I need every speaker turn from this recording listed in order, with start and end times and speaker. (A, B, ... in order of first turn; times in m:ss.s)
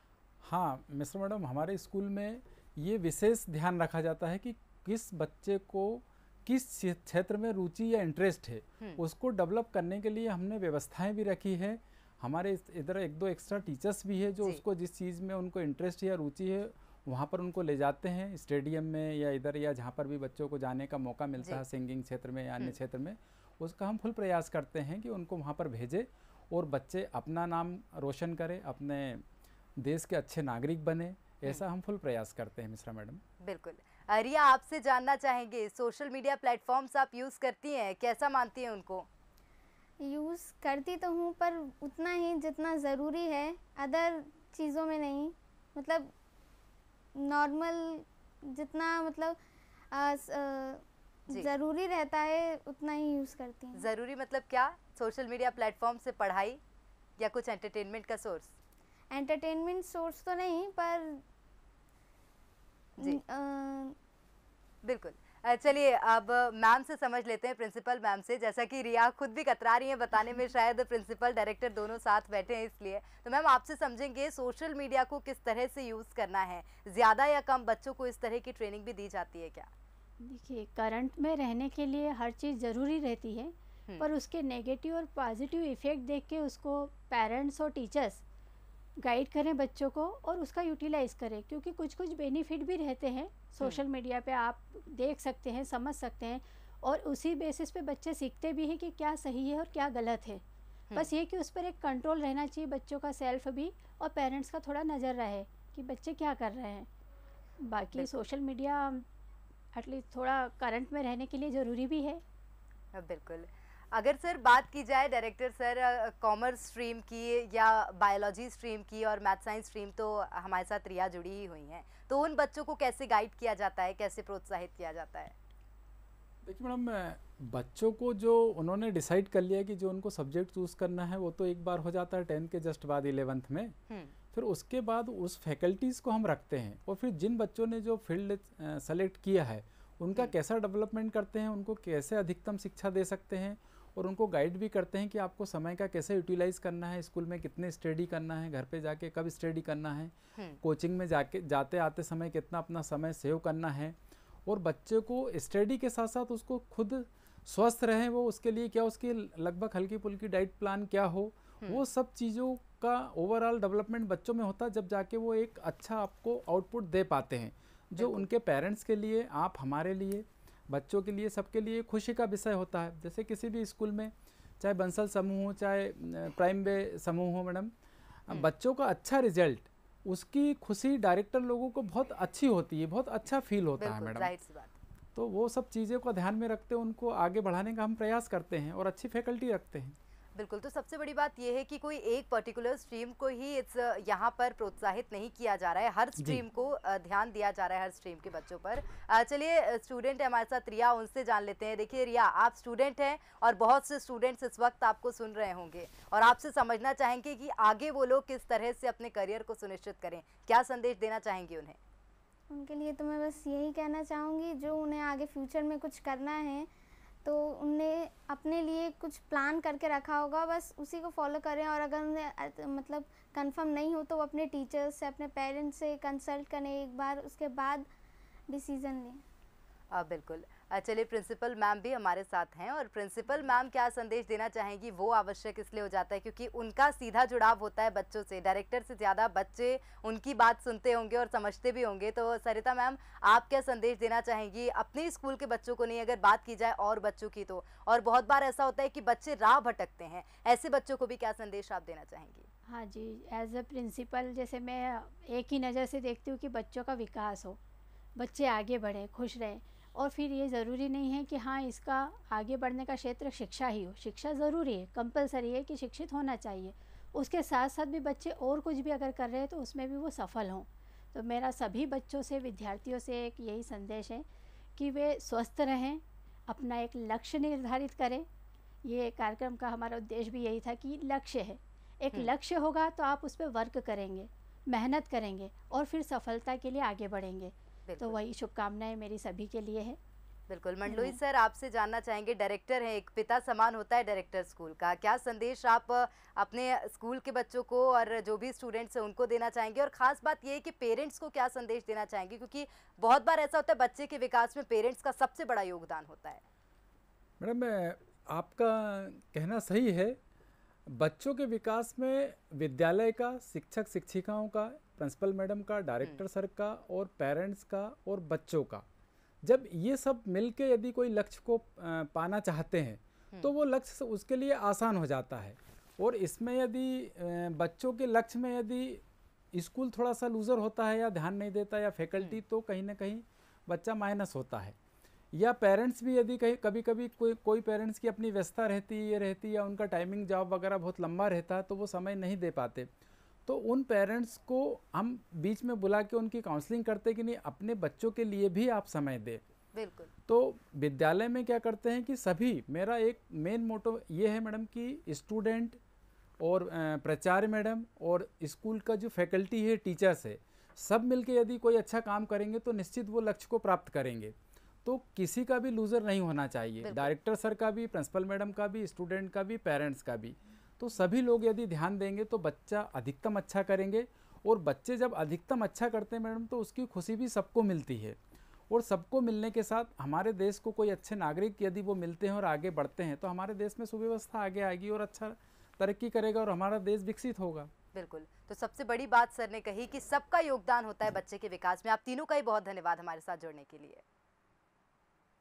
0:00.4-0:29.2 A
0:29.8-0:33.2 A
0:33.4-0:39.1 B
0:40.0-0:46.1 C
0:47.1-0:49.4 C
0:49.9-0:53.9 C
0:53.7-0:56.6 B
0:57.2-0:58.5 B
0:59.1-1:01.2 C
1:03.0-1:04.0 C
1:04.8-1:19.7 B
1:20.2-1:28.2 D
1:29.0-1:40.4 D
1:40.9-1:46.9 D
1:47.6-1:49.0 D
1:49.7-1:52.2 D
1:52.9-2:05.3 B
2:06.4-2:13.8 A
2:13.9-2:14.1 B
2:14.3-2:57.7 A
2:48.0-2:48.3 B
2:58.3-3:04.3 A
3:03.8-3:04.7 B
3:05.1-3:10.0 A
3:10.4-3:31.8 B
3:16.2-3:16.4 A
3:32.5-3:36.7 C
3:37.2-3:47.9 C
3:48.5-3:49.2 C
3:49.9-4:12.5 B
4:12.7-4:17.6 D
4:18.2-4:34.2 D
4:34.8-4:38.3 D
4:38.8-4:50.0 D
4:47.9-4:48.2 B
4:50.5-5:06.4 B
4:50.8-4:51.2 D
5:07.4-5:10.2 A
5:10.9-5:18.8 A
5:19.4-5:34.8 A
5:35.3-5:42.9 A
5:43.5-5:49.4 A
5:49.7-5:50.1 B
5:50.3-5:55.8 A
5:56.4-6:18.2 A
6:06.8-6:07.1 B
6:18.7-6:27.7 A
6:27.9-6:34.0 B